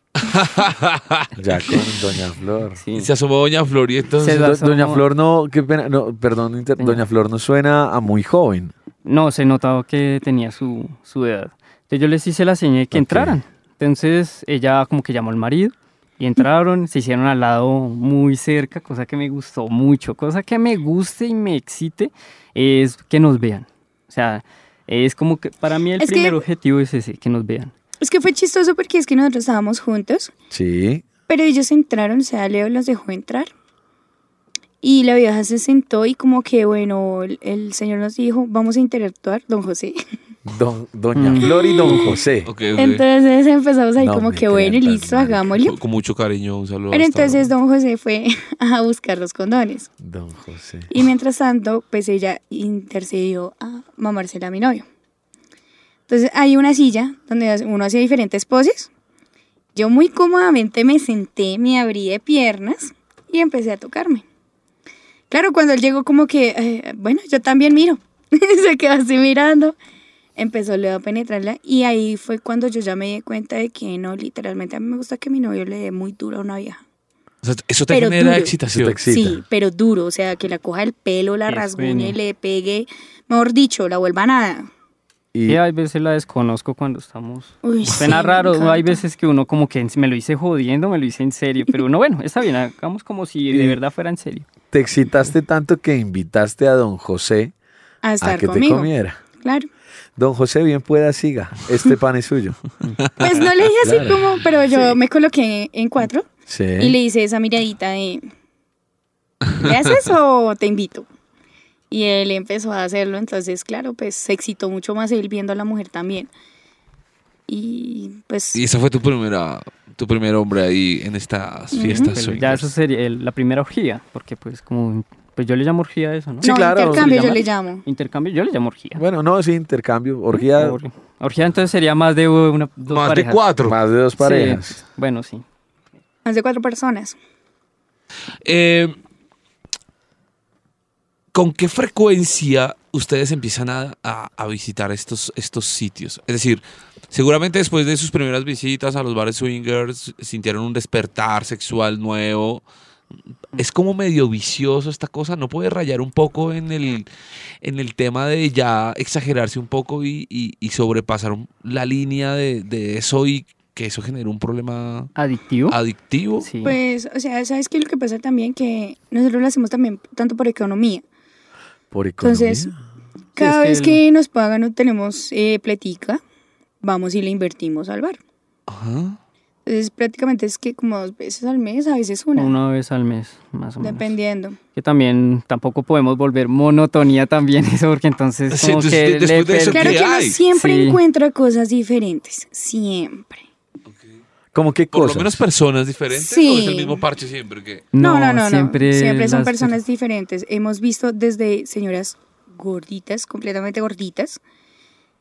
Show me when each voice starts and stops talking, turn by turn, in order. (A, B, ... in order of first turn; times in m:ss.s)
0:00.2-0:01.8 A
0:01.4-0:02.8 B
0:02.8-0:03.1 C
0:02.9-0:04.5 A
0:04.2-0:05.0 C
0:04.3-0:08.7 B
0:06.8-0:07.0 C
0:09.0-0:27.7 C
0:12.9-0:13.4 B
0:26.0-0:26.4 D
0:28.0-0:30.3 D
0:30.5-0:31.0 B
0:31.3-0:33.5 D
0:34.8-0:40.0 D
0:40.5-0:42.5 B
0:41.2-0:42.1 C
0:41.4-0:42.2 D
0:42.4-0:43.0 A
0:42.8-0:45.8 D
0:44.0-0:45.6 B
0:45.6-0:47.5 A
0:46.9-0:49.9 D
0:50.0-0:50.9 B
0:50.9-0:54.8 D
0:56.1-0:58.9 D
0:59.8-1:04.2 D
1:05.3-1:09.8 D
1:10.4-1:16.8 D
1:17.4-1:19.0 A
1:17.9-1:18.5 D
1:18.7-1:19.4 B
1:19.1-1:24.7 D
1:21.5-1:22.2 C
1:25.3-1:25.6 B
1:25.5-1:34.5 C
1:27.6-1:29.0 D
1:33.5-1:33.8 B
1:34.7-1:37.5 B
1:38.0-1:39.7 D
1:38.2-1:39.2 B
1:40.2-1:42.6 B
1:43.0-1:43.5 A
1:43.2-1:46.3 D
1:43.8-1:44.2 B
1:46.5-1:47.0 B
1:46.8-1:48.3 D
1:49.6-1:51.1 D
1:51.9-1:56.3 D
1:57.5-1:58.6 D
1:58.5-2:02.7 A
2:01.7-2:02.2 D
2:01.8-2:09.0 C
2:06.4-2:07.3 B
2:06.4-2:07.8 D
2:09.0-2:10.8 B
2:10.3-2:13.4 C
2:12.9-2:13.8 A
2:13.6-2:14.8 B
2:14.2-2:15.4 C
2:16.2-2:17.2 D
2:18.4-2:19.0 A
2:21.3-2:32.6 A
2:33.6-2:37.1 A
2:37.6-2:45.1 A
2:45.2-2:45.8 C
2:45.7-2:46.5 A
2:46.4-2:46.8 C
2:46.6-2:51.0 D
2:51.9-2:52.8 B
2:52.2-2:52.7 D
2:53.4-2:56.2 D
2:53.4-2:54.0 C
2:56.8-2:58.2 D
2:58.7-2:59.2 A
2:59.7-3:02.5 D
3:02.4-3:04.1 C
3:03.8-3:04.6 D
3:04.7-3:11.0 C
3:08.5-3:10.4 A
3:09.7-3:13.4 D
3:13.9-3:14.1 A
3:14.5-3:15.4 B
3:14.9-3:17.9 A
3:16.1-3:17.0 D
3:17.9-3:19.8 C
3:18.0-3:24.4 D